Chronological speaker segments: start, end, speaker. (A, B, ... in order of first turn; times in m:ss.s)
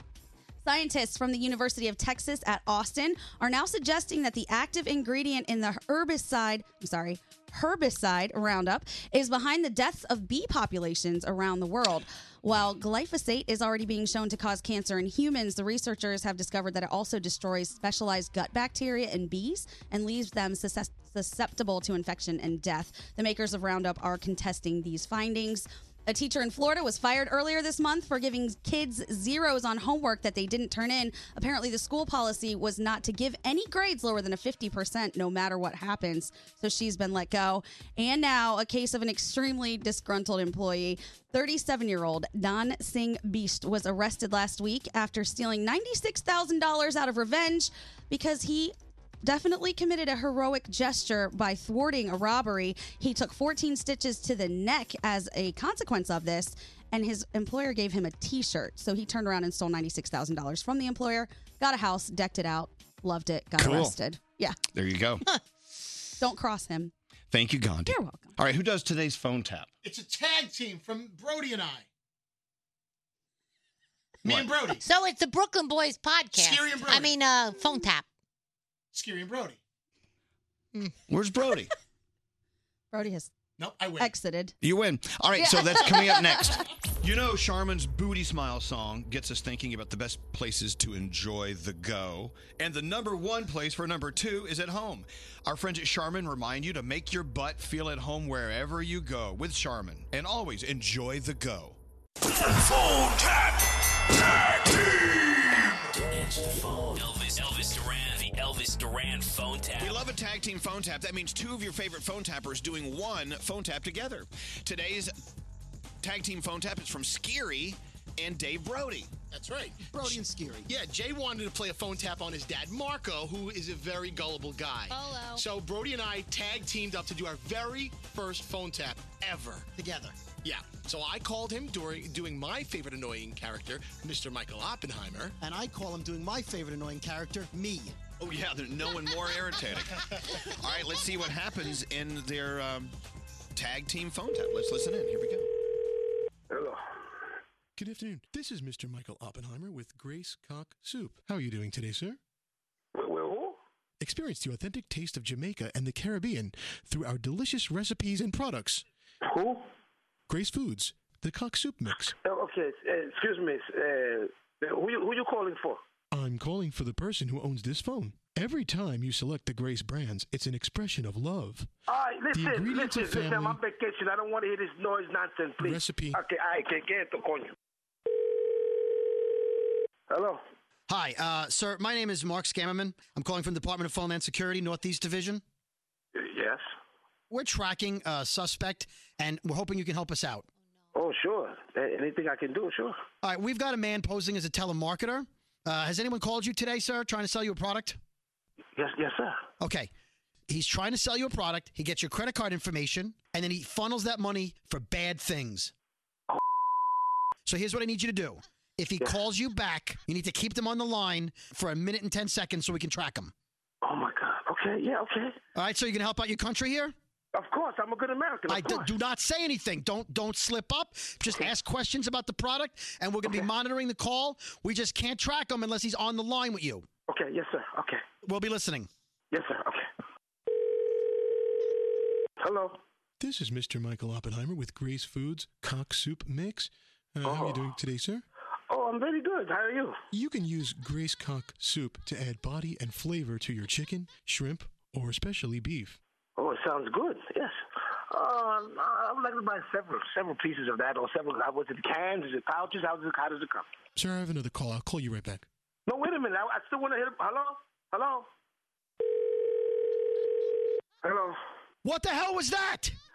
0:00.6-1:04.6 A
1:03.6-1:04.0 B
1:04.7-1:05.2 B
1:06.2-1:06.9 A
1:07.3-1:09.7 B
1:07.9-1:08.4 A
1:09.8-1:11.8 C
1:14.2-1:14.5 B
1:14.2-1:14.8 C
1:14.8-1:18.1 D
1:16.4-1:17.1 C
1:18.9-1:19.6 C
1:21.1-1:21.7 B
1:22.9-1:23.3 A
1:23.6-1:24.1 C
1:24.0-1:24.5 A
1:24.6-1:41.8 B
1:25.4-1:26.6 A
1:46.9-1:50.0 E
1:49.8-1:55.1 B
1:56.0-1:59.1 B
1:59.3-2:00.1 C
1:59.9-2:00.7 F
2:00.7-2:09.7 C
2:04.9-2:05.4 D
2:09.8-2:10.3 F
2:10.4-2:15.4 C
2:15.4-2:18.0 F
2:18.2-2:22.9 B
2:23.6-2:25.5 B
2:26.5-2:26.8 G
2:27.8-2:32.2 H
2:33.0-2:33.6 G
2:34.0-2:38.8 H
2:39.2-2:39.7 G
2:40.3-2:42.2 H
2:42.1-2:45.8 G
2:46.1-2:51.7 H
2:51.9-2:57.5 G
2:52.3-2:53.6 H
2:55.6-2:56.2 H
3:00.1-3:00.4 G
3:00.9-3:05.4 F
3:06.2-3:06.6 G
3:07.3-3:10.4 F
3:11.0-3:13.0 G
3:13.2-3:18.0 F
3:18.8-3:19.4 G
3:19.6-3:19.9 F
3:20.5-3:25.7 F
3:27.5-3:33.3 F
3:33.8-3:35.4 G
3:35.6-3:36.9 F
3:37.3-3:38.9 G
3:38.5-3:46.9 F
3:47.1-3:48.0 G
3:48.2-3:48.9 F
3:49.3-3:49.9 G
3:52.4-3:52.8 G
3:53.2-3:58.2 H
3:57.2-3:57.7 G
3:58.7-4:00.0 G
4:00.1-4:06.0 H
4:06.4-4:07.6 G
4:08.1-4:13.7 G
4:14.0-4:15.5 H
4:15.9-4:18.3 G
4:21.0-4:21.4 G
4:21.8-4:23.0 F